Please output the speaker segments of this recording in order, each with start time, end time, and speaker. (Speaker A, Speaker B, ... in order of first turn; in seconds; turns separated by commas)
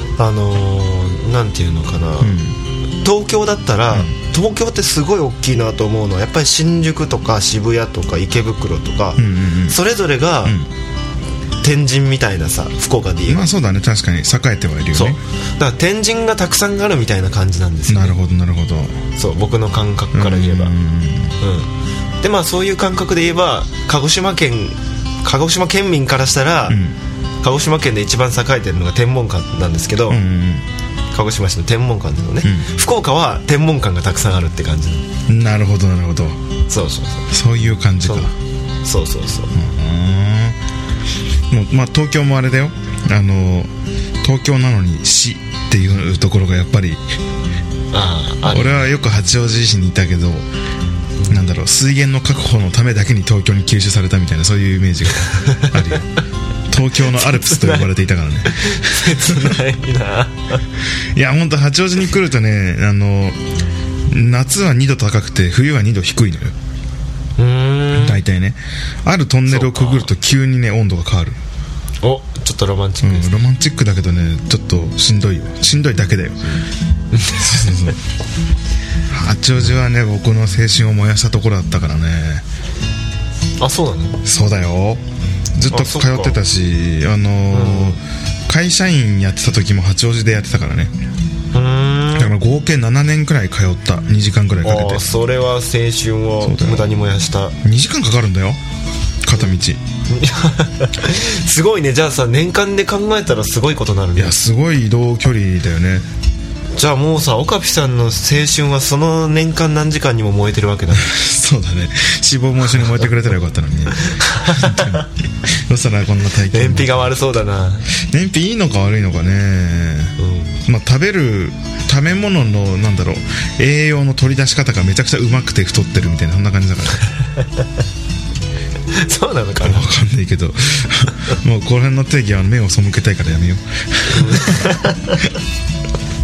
Speaker A: 0.2-2.4, Speaker B: 2.2-2.6, Speaker A: 3.0-10.6, Speaker B: 9.2-9.8, Speaker A: 11.6-13.5, Speaker B: 13.3-15.2, Speaker A: 14.9-18.2, Speaker B: 17.9-19.0, Speaker A: 19.2-20.7, Speaker B: 20.1-21.4, Speaker A: 21.4-21.7, Speaker A: 22.2-26.8, Speaker B: 26.7-27.0, Speaker A: 27.4-30.2, Speaker B: 30.1-30.7, Speaker A: 31.1-35.1, Speaker B: 35.3-36.4, Speaker A: 36.7-37.3, Speaker B: 37.3-38.3, Speaker A: 38.0-38.3, Speaker A: 38.9-39.5, Speaker B: 39.5-40.6, Speaker B: 41.5-43.7, Speaker B: 44.2-47.0, Speaker A: 47.9-48.9, Speaker B: 48.5-50.5, Speaker A: 51.2-51.5, Speaker B: 51.3-56.1, Speaker A: 55.3-55.9, Speaker B: 56.7-59.6, Speaker A: 57.2-57.9, Speaker A: 58.5-60.6, Speaker B: 61.1-63.4, Speaker B: 64.1-66.6, Speaker A: 67.4-68.2, Speaker B: 67.9-71.4, Speaker A: 69.5-70.1, Speaker A: 72.0-73.4, Speaker B: 73.0-76.5, Speaker A: 77.1-77.9, Speaker B: 77.3-78.0, Speaker B: 79.1-82.4, Speaker A: 83.6-84.2, Speaker B: 84.2-85.0, Speaker B: 85.6-90.9, Speaker A: 85.7-86.4, Speaker A: 87.5-88.0, Speaker A: 91.5-92.3, Speaker B: 92.2-95.0, Speaker A: 94.6-97.5, Speaker B: 96.4-96.9, Speaker B: 97.6-98.6, Speaker B: 99.2-99.8, Speaker A: 100.1-104.3, Speaker B: 104.2-106.1, Speaker A: 106.8-111.2, Speaker B: 111.0-117.2, Speaker A: 114.0-115.1, Speaker A: 116.5-117.9, Speaker B: 117.9-127.0, Speaker A: 120.2-120.6, Speaker A: 128.9-129.9, Speaker B: 129.6-134.7, Speaker A: 134.1-135.3